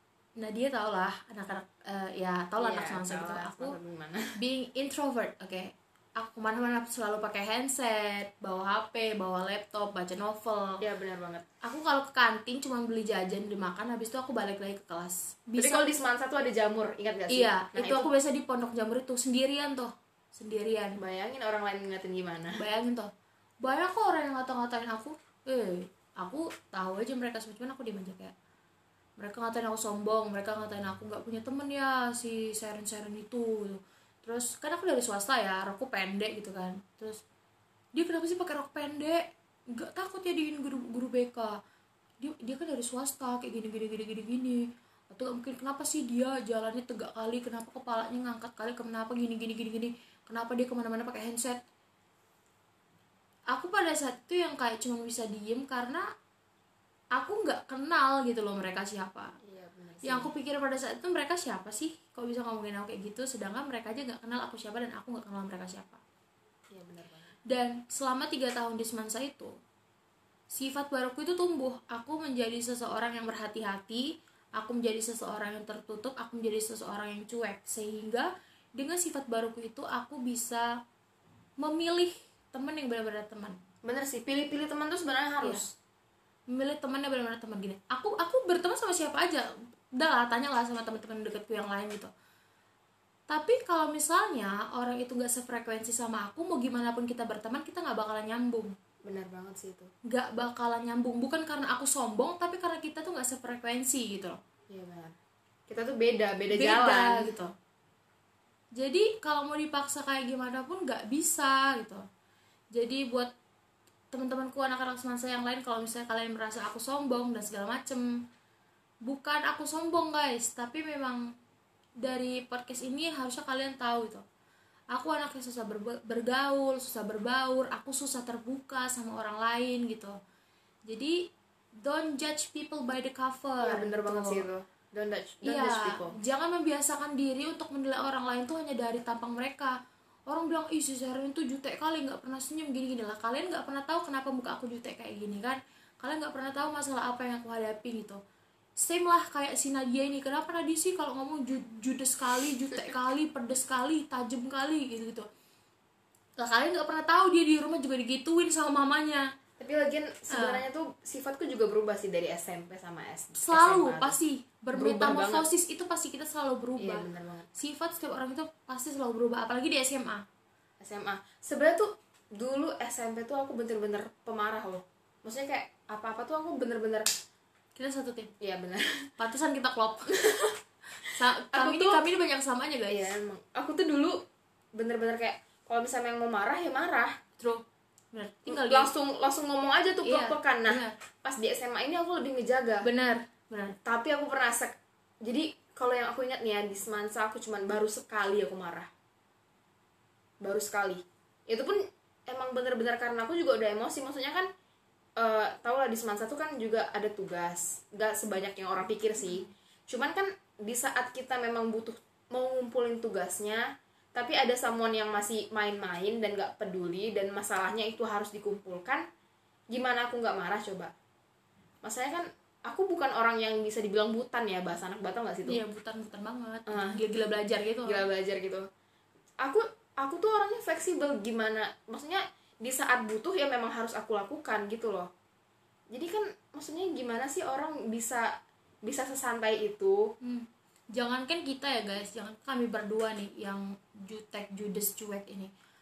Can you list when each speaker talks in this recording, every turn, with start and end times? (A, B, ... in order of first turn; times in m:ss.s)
0:00.4-0:03.8 A
0:02.6-0:04.3 B
0:04.4-0:10.8 A
0:10.8-0:11.4 B
0:11.6-0:15.9 A
0:15.6-0:18.1 B
0:17.3-0:21.0 A
0:21.0-0:22.6 B
0:22.6-0:23.1 A
0:23.6-0:28.3 A
0:29.2-0:37.2 A
0:37.9-0:41.6 A
0:42.2-0:51.6 A
0:53.5-0:56.1 A
0:57.1-0:59.4 A
0:59.4-1:00.3 B
1:00.0-1:06.0 A
1:06.7-1:07.3 B
1:07.4-1:09.5 A
1:10.5-1:20.8 A
1:21.6-1:23.6 A
1:23.8-1:25.6 B
1:25.4-1:25.7 A
1:26.5-1:32.1 A
1:33.3-1:38.8 A
1:39.0-1:39.9 B
1:40.1-1:44.4 A
1:44.7-1:45.1 B
1:45.7-1:47.3 B
1:46.5-1:47.5 A
1:48.7-1:52.0 A
1:52.7-1:53.3 A
1:54.1-1:58.1 A
1:59.0-2:01.2 A
2:02.0-2:04.2 A
2:04.9-2:10.2 A
2:10.9-2:14.4 A
2:13.6-2:16.2 B
2:15.4-2:19.8 A
2:20.3-2:28.2 A
2:28.8-2:35.3 A
2:36.4-2:39.3 A
2:39.6-2:44.2 B
2:40.3-2:40.6 A
2:43.4-2:50.2 A
2:44.7-2:45.5 B
2:46.8-2:47.5 B
2:50.8-2:57.1 B
2:57.8-2:58.3 A
2:58.4-2:59.1 B
2:59.2-3:00.2 A
3:00.1-3:00.6 B
3:01.0-3:03.1 A
3:01.5-3:02.0 B
3:02.9-3:04.2 B
3:04.7-3:07.1 B
3:07.4-3:08.9 A
3:08.5-3:12.9 B
3:10.0-3:10.9 A
3:12.8-3:13.8 A
3:13.8-3:18.9 B
3:20.4-3:24.5 B
3:25.2-3:39.0 B
3:39.7-3:40.9 B
3:41.8-3:45.6 B
3:45.5-3:48.0 A
3:46.7-3:47.0 B
3:47.8-3:48.7 B
3:49.4-3:55.1 B
3:55.9-3:58.3 B
3:58.8-4:00.1 B
4:00.2-4:05.5 A